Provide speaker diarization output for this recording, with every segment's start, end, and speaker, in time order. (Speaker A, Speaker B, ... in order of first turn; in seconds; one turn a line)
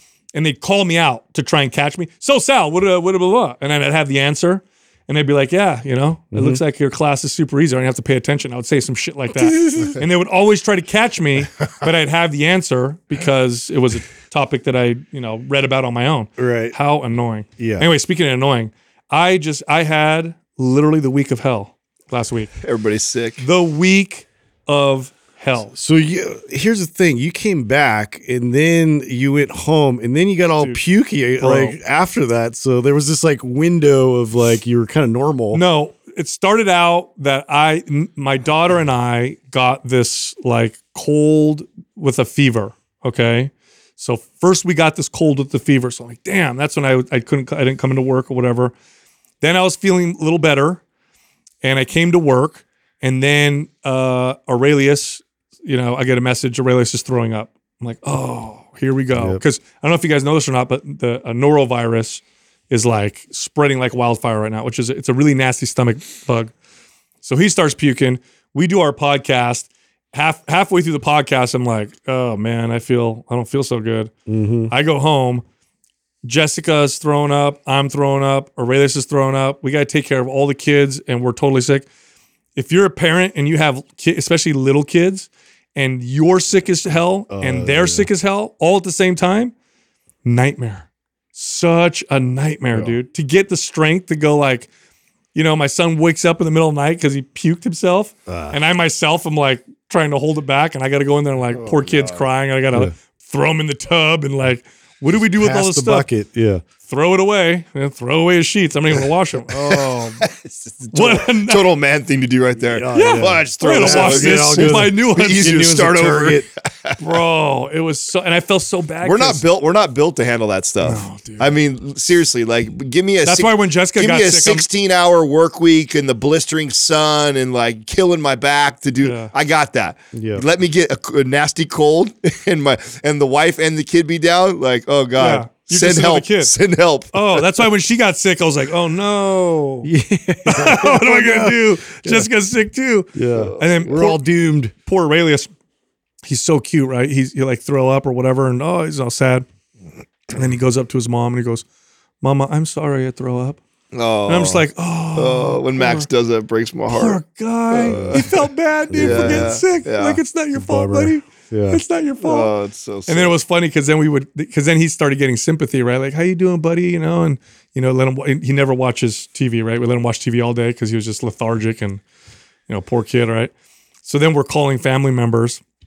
Speaker A: 0.3-22.5
Speaker B: 6.3-6.6
Speaker B: 16.4-16.8
Speaker B: 17.6-17.9
Speaker C: 22.6-23.4
Speaker A: 23.4-25.7
Speaker B: 25.8-35.6
Speaker A: 31.4-31.8
Speaker A: 35.5-48.7
Speaker A: 49.4-50.8
Speaker A: 51.6-66.5
Speaker B: 59.1-59.4
Speaker A: 67.2-74.1
Speaker B: 74.3-74.7
Speaker A: 74.7-75.4
Speaker A: 76.2-81.9
Speaker A: 82.6-89.5
Speaker B: 87.3-88.1
Speaker A: 90.2-94.7
Speaker B: 92.7-93.0
Speaker A: 95.3-106.1
Speaker B: 98.3-98.6
Speaker C: 101.5-102.3
Speaker B: 105.3-106.6
Speaker A: 106.9-110.2
Speaker C: 109.5-117.0
Speaker A: 110.9-111.7
Speaker B: 112.6-116.5
Speaker A: 112.9-115.7
Speaker A: 117.0-119.4
Speaker C: 119.0-137.7
Speaker A: 120.8-121.5
Speaker A: 123.2-124.7
Speaker A: 129.0-129.3
Speaker B: 130.1-130.4
Speaker A: 135.2-136.5
Speaker A: 137.1-139.9
Speaker B: 139.8-142.3
Speaker A: 140.4-144.2
Speaker B: 143.2-144.7
Speaker C: 143.3-144.0
Speaker A: 144.8-145.5
Speaker A: 146.2-149.4
Speaker A: 150.3-151.7
Speaker A: 152.2-153.6
Speaker C: 153.9-158.4
Speaker A: 154.3-156.1
Speaker A: 156.9-162.5
Speaker B: 157.9-158.2
Speaker B: 158.9-159.6
Speaker C: 158.9-160.2
Speaker B: 160.6-161.8
Speaker C: 162.2-163.4
Speaker A: 163.1-172.0
Speaker A: 172.7-173.5
Speaker A: 174.1-175.6